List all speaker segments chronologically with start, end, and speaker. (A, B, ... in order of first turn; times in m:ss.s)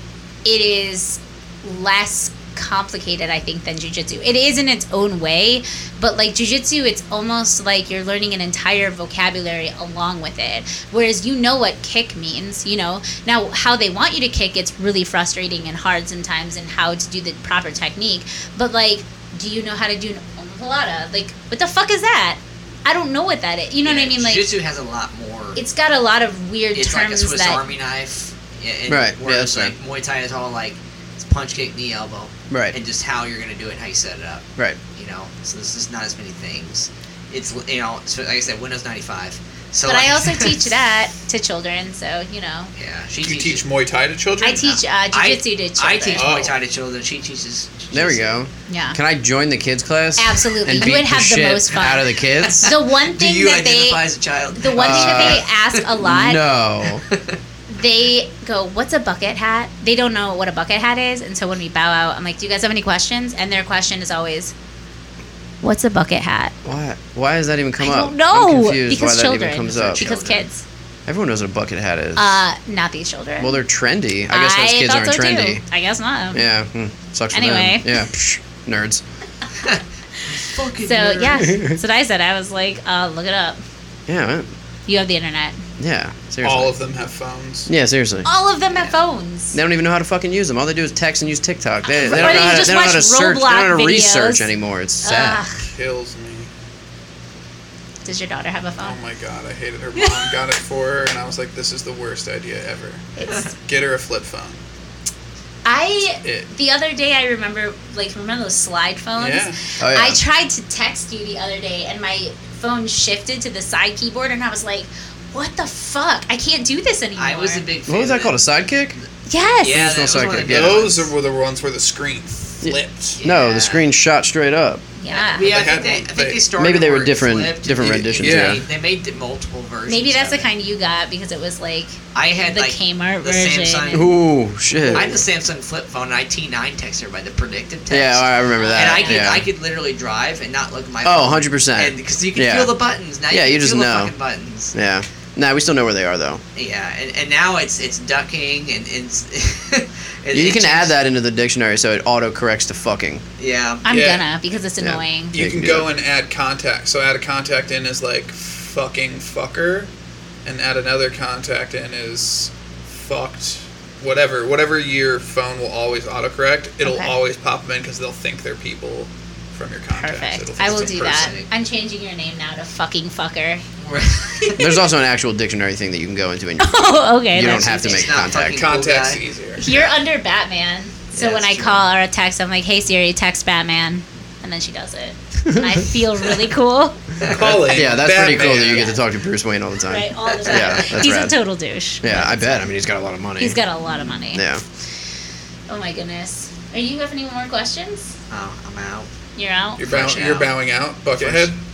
0:00.4-0:24.5 A
0:23.8-0:25.6 B
0:25.6-0:27.6 A
0:26.7-0:40.7 B
0:28.9-0:29.7 C
0:32.5-0:32.8 C
0:39.8-0:42.7 A
0:42.7-0:43.6 B
0:43.2-0:44.8 D
0:44.4-0:46.3 A
0:45.1-0:48.4 B
0:46.2-0:46.6 D
0:47.9-0:52.7 C
0:48.7-0:49.0 A
0:50.2-0:54.0 A
0:52.3-0:55.8 B
0:54.5-0:56.4 A
0:54.7-0:55.4 C
0:56.0-0:57.0 C
0:57.1-0:57.4 B
0:57.7-1:04.5 A
1:05.6-1:06.5 A
1:06.6-1:10.0 C
1:07.8-1:10.6 A
1:09.7-1:10.5 B
1:11.0-1:12.4 C
1:12.2-1:13.6 A
1:13.4-1:15.6 C
1:14.3-1:16.5 A
1:16.3-1:19.0 C
1:17.3-1:18.0 A
1:19.6-1:21.5 B
1:20.2-1:23.6 A
1:21.4-1:21.8 C
1:24.1-1:24.5 C
1:24.9-1:25.6 A
1:25.8-1:26.8 C
1:26.4-1:27.7 D
1:27.7-1:28.3 C
1:28.2-1:29.6 A
1:29.5-1:35.4 C
1:31.8-1:34.5 A
1:32.0-1:32.7 D
1:35.0-1:35.6 A
1:35.6-1:36.5 D
1:38.0-1:39.0 A
1:38.8-1:44.6 D
1:39.9-1:40.3 A
1:43.2-1:43.5 A
1:45.6-1:57.7 A
1:46.2-1:46.5 D
1:49.2-1:49.6 D
1:49.8-1:50.2 C
1:57.2-1:58.4 B
1:57.9-1:59.0 C
1:59.3-1:59.8 A
1:59.6-2:01.1 B
1:59.6-2:00.8 C
2:00.4-2:03.2 D
2:02.6-2:04.8 C
2:03.1-2:03.9 B
2:05.0-2:05.7 A
2:05.1-2:10.5 B
2:05.4-2:06.5 D
2:06.6-2:08.6 C
2:08.2-2:08.6 D
2:09.9-2:14.1 A
2:12.1-2:14.2 B
2:13.9-2:15.2 C
2:14.9-2:24.7 B
2:17.9-2:19.5 C
2:18.5-2:19.3 A
2:21.0-2:22.7 C
2:23.3-2:24.1 C
2:24.7-2:26.4 C
2:26.5-2:30.9 B
2:30.3-2:33.2 C
2:33.4-2:33.8 B
2:33.8-2:35.3 A
2:33.9-2:34.3 D
2:34.8-2:35.9 C
2:35.3-2:39.9 D
2:40.4-2:51.3 D
2:46.8-2:47.1 A
2:49.9-2:53.6 A
2:50.6-2:51.5 B
2:53.8-2:54.8 B
2:54.6-2:58.6 C
2:56.6-2:58.2 A
2:57.4-2:59.2 B
2:58.3-2:59.7 D
2:59.6-3:07.0 A
3:01.1-3:01.8 B
3:05.5-3:05.8 C
3:07.2-3:07.6 B
3:07.2-3:09.0 D
3:07.4-3:11.4 C
3:08.5-3:09.0 A
3:09.9-3:12.7 A
3:10.3-3:10.9 B
3:12.0-3:13.6 C
3:13.4-3:14.5 A
3:14.3-3:14.6 C
3:15.7-3:18.2 A
3:18.3-3:19.1 B
3:19.4-3:19.8 A
3:19.8-3:21.6 D
3:19.8-3:20.5 B
3:21.1-3:21.5 B